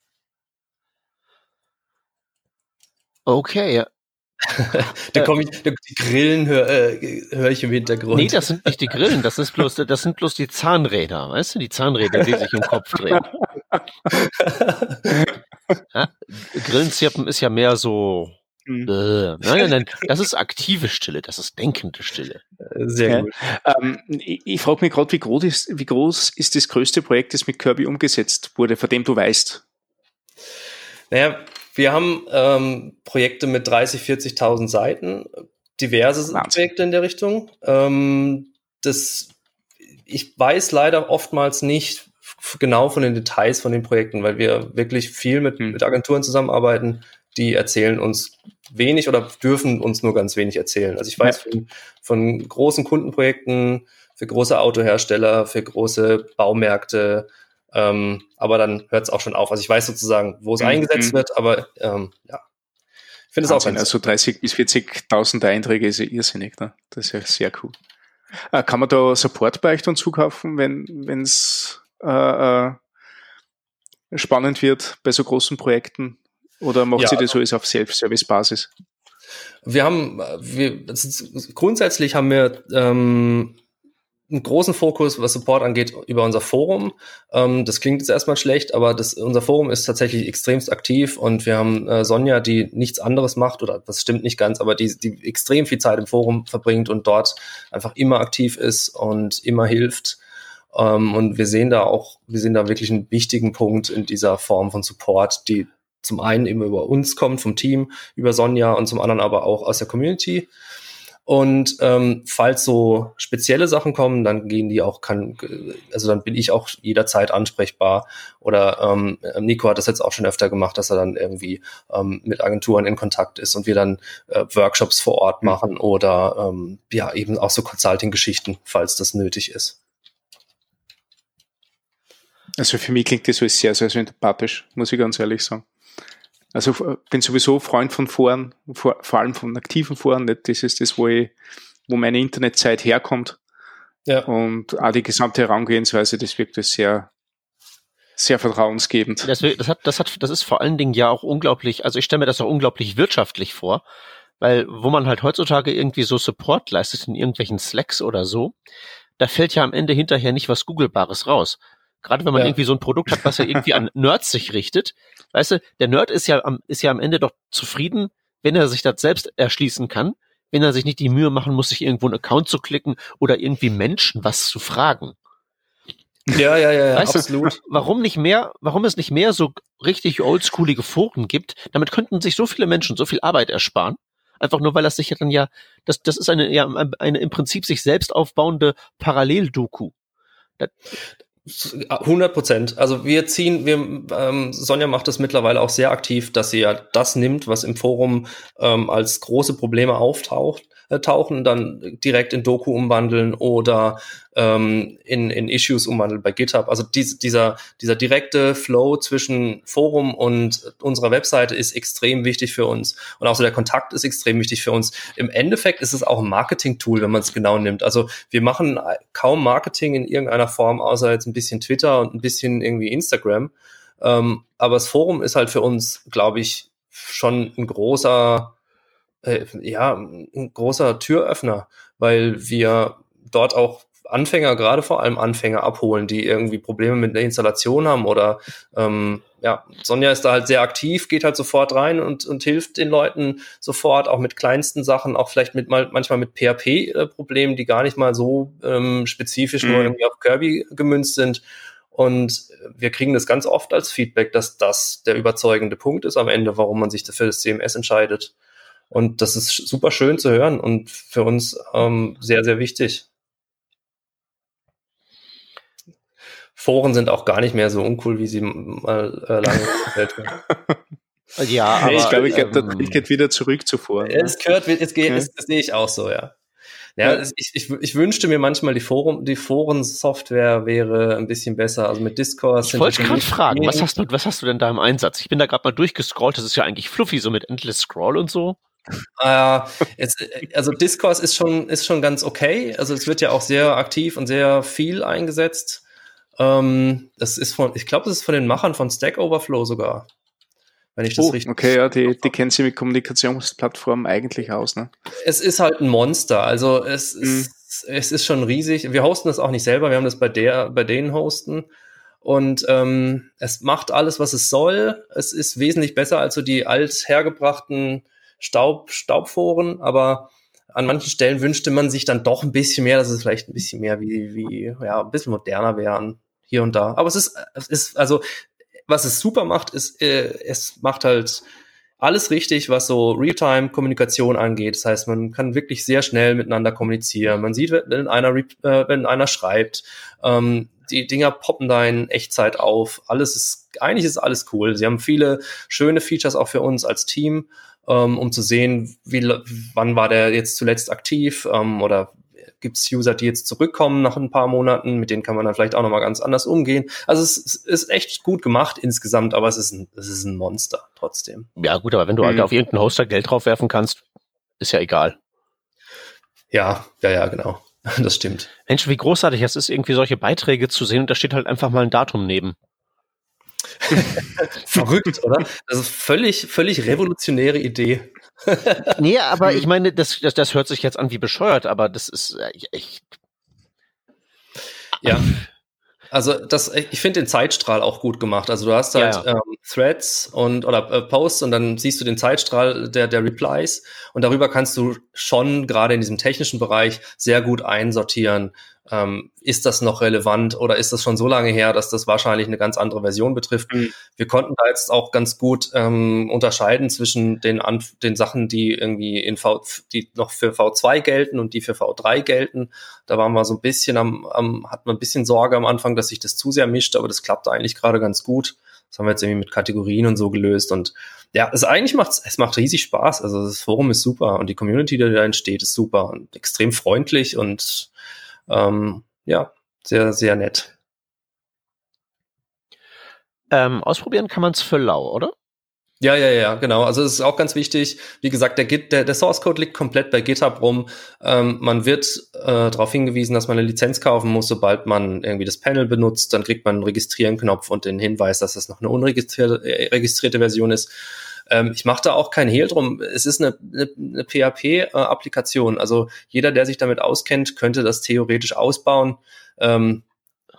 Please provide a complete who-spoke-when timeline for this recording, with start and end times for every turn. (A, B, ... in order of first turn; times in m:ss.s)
0:03.2-0:03.9 A
0:04.4-0:08.4 B
0:08.1-0:13.3 A
0:14.1-0:15.2 B
0:15.9-0:22.4 A
0:22.7-0:23.3 B
0:23.1-0:29.6 C
0:31.1-0:39.3 B
0:36.3-0:36.7 C
0:40.1-1:02.4 B
1:00.6-1:01.2 C
1:03.3-1:03.9 B
1:03.4-1:07.7 C
1:08.5-1:12.8 C
1:14.1-1:18.7 C
1:17.0-1:17.3 B
1:19.6-1:23.6 B
1:24.3-1:40.2 B
1:40.7-1:50.5 B
1:51.2-2:09.8 B
2:12.6-2:15.6 C
2:16.5-2:21.3 C
2:21.9-2:23.4 C
2:24.3-2:27.1 C
2:28.2-2:29.3 C
2:29.2-2:33.8 A
2:34.4-2:38.5 A
2:39.2-2:55.2 A
2:56.3-2:57.6 B
2:56.9-3:09.9 A
3:11.5-3:48.6 B
3:49.2-4:11.4 B
4:09.6-4:09.9 C
4:11.9-4:18.3 B
4:18.9-4:23.0 B
4:26.6-4:30.4 B
4:30.5-4:30.8 C
4:31.4-4:33.0 A
4:31.8-4:34.3 C
4:31.8-4:32.4 B
4:34.0-4:36.4 B
4:37.0-4:43.9 B
4:42.6-4:48.6 A
4:49.2-4:55.8 B
4:56.4-5:00.1 B
5:01.0-5:02.3 B
5:01.2-5:04.9 C
5:05.2-5:11.7 B
5:07.2-5:07.5 C
5:12.2-5:28.2 B
5:28.9-5:31.4 B
5:32.0-6:01.5 B
6:01.6-6:04.0 A
6:04.6-6:05.2 A
6:06.5-6:08.5 B
6:08.7-6:12.6 A
6:13.8-6:19.0 B
6:19.0-6:23.0 A
6:25.0-6:25.3 B
6:26.1-7:07.9 B
6:28.9-6:29.2 A
7:08.5-7:10.7 B
7:13.5-7:15.3 A
7:16.0-7:30.9 B
7:31.5-7:40.0 B